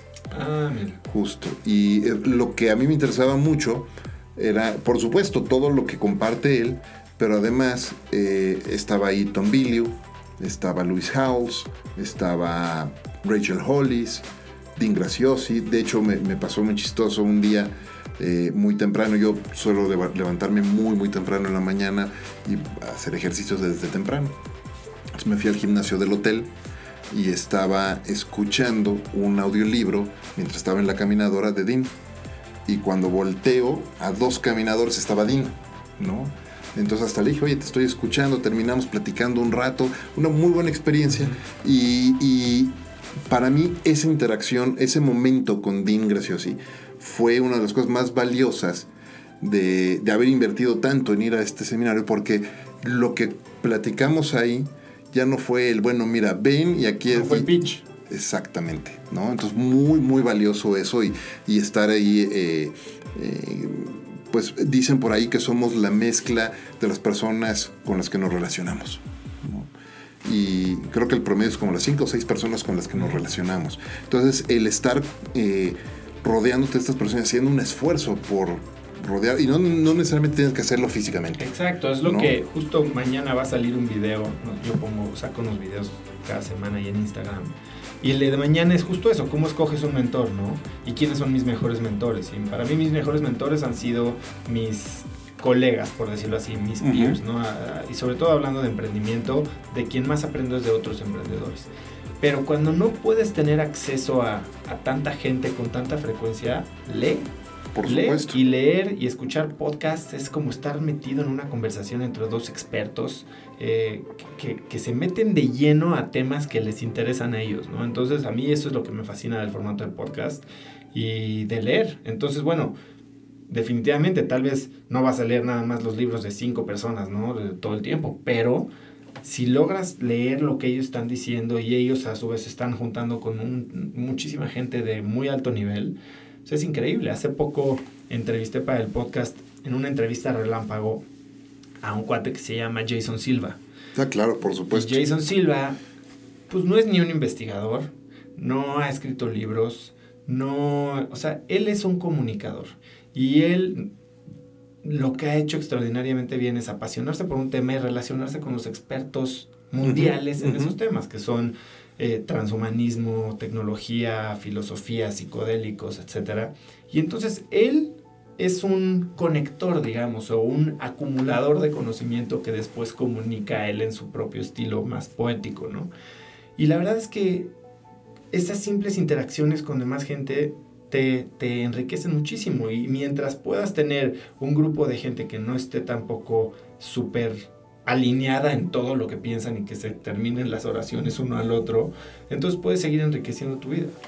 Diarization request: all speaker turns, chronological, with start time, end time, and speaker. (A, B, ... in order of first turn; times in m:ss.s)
0:00.3-0:01.0 A
0:01.1-0:14.2 B
0:14.8-0:24.4 B
0:25.2-0:26.5 B
0:27.1-0:31.9 B
0:32.7-0:42.7 B
0:43.3-0:48.9 B
0:49.4-1:09.7 B
0:57.1-0:57.8 A
1:10.2-1:21.4 B
1:21.4-1:41.7 A
1:22.0-1:22.3 B
1:36.8-1:37.2 B
1:42.2-1:47.3 A
1:47.8-1:48.4 B
1:47.8-2:02.8 A
2:03.5-2:08.7 A
2:09.2-2:21.0 A
2:21.8-2:23.6 A
2:24.0-2:25.0 B
2:24.7-2:25.8 A
2:26.5-2:33.9 A
2:34.8-2:55.9 A
2:39.8-2:40.8 B
2:56.6-2:57.5 A
2:58.3-3:14.0 A